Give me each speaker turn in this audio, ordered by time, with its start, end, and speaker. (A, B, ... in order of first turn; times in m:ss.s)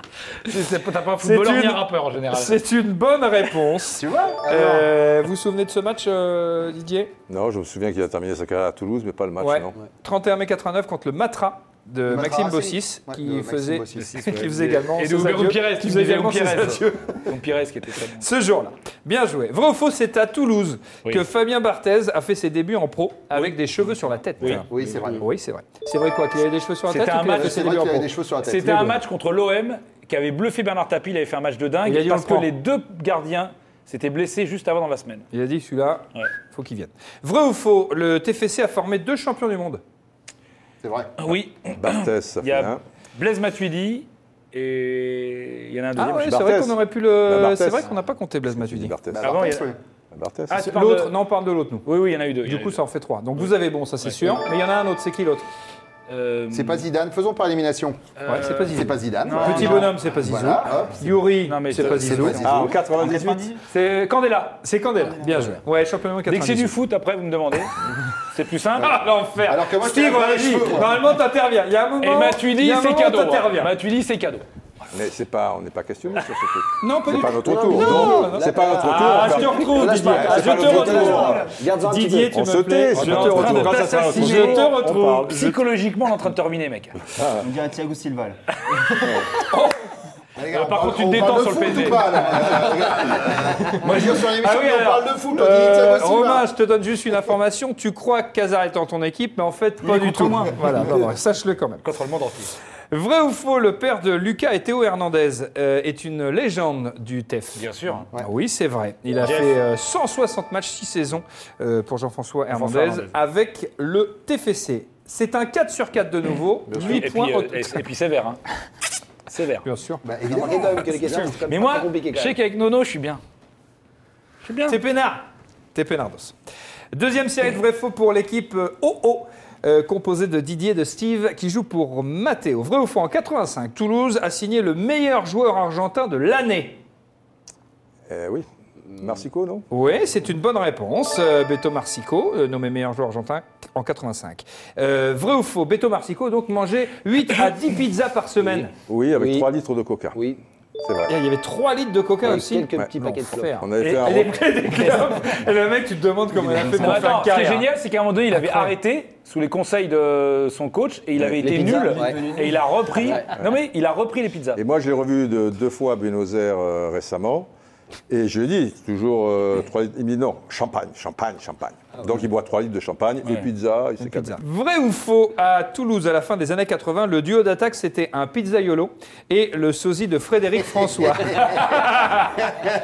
0:00.4-0:02.6 A
0:01.2-0:07.1 B
0:03.9-0:04.9 C
0:07.3-0:09.8 D
0:09.4-0:17.3 B
0:12.1-0:14.3 C
0:14.0-0:18.3 A
0:18.2-0:28.1 B
0:24.7-0:25.3 C
0:26.9-0:27.6 A
0:27.4-0:29.0 C
0:28.4-0:35.3 A
0:31.9-0:32.5 B
0:35.3-0:39.8 B
0:40.8-0:41.1 C
0:41.2-0:46.3 A
0:41.8-0:42.8 D
0:46.0-0:48.9 B
0:46.1-0:47.9 D
0:48.5-0:49.4 D
0:49.1-0:49.8 C
0:49.2-0:49.7 A
0:50.1-0:50.6 D
0:50.5-0:51.9 B
0:50.5-0:51.1 A
0:51.8-0:52.8 A
0:52.4-0:55.5 B
0:54.0-0:54.4 A
0:56.1-0:56.9 A
0:56.5-0:58.0 C
0:58.2-1:00.0 A
0:58.3-1:02.7 B
0:58.6-1:01.2 C
1:01.4-1:02.4 A
1:01.8-1:02.8 C
1:02.4-1:03.5 D
1:02.8-1:03.6 E
1:03.7-1:04.6 A
1:04.6-1:06.8 B
1:06.3-1:07.7 A
1:08.3-1:09.0 A
1:08.8-1:13.7 B
1:09.4-1:11.0 C
1:12.0-1:14.5 A
1:14.9-1:21.5 D
1:16.8-1:25.6 B
1:17.4-1:22.4 F
1:21.0-1:21.3 A
1:22.3-1:25.5 D
1:23.0-1:27.0 A
1:27.1-1:27.4 D
1:27.4-1:28.4 E
1:28.7-1:29.7 A
1:30.4-1:36.5 C
1:30.5-1:32.7 A
1:33.8-1:41.8 B
1:33.9-1:34.2 A
1:39.8-1:41.0 E
1:41.8-1:42.5 A
1:42.9-1:57.8 B
1:47.6-1:48.1 A
1:49.2-1:49.6 A
1:52.5-1:53.1 A
1:56.7-1:57.0 D
1:56.7-1:58.4 A
1:59.3-1:59.7 A
1:59.6-2:00.0 B
2:00.0-2:00.8 C
2:00.3-2:02.4 F
2:01.5-2:03.2 A
2:04.4-2:04.8 A
2:04.7-2:06.4 B
2:06.9-2:16.8 B
2:18.1-2:19.7 D
2:19.7-2:28.7 B
2:28.9-2:30.2 D
2:29.1-2:29.5 F
2:30.1-2:30.4 F
2:30.8-2:31.2 D
2:31.1-2:37.7 B
2:32.2-2:33.7 F
2:33.6-2:34.4 D
2:36.5-2:36.8 E
2:36.6-2:44.6 A
2:38.3-2:38.7 B
2:41.4-2:43.3 F
2:44.6-2:47.5 D
2:48.1-2:54.4 D
2:54.0-3:02.6 B
3:01.0-3:01.5 C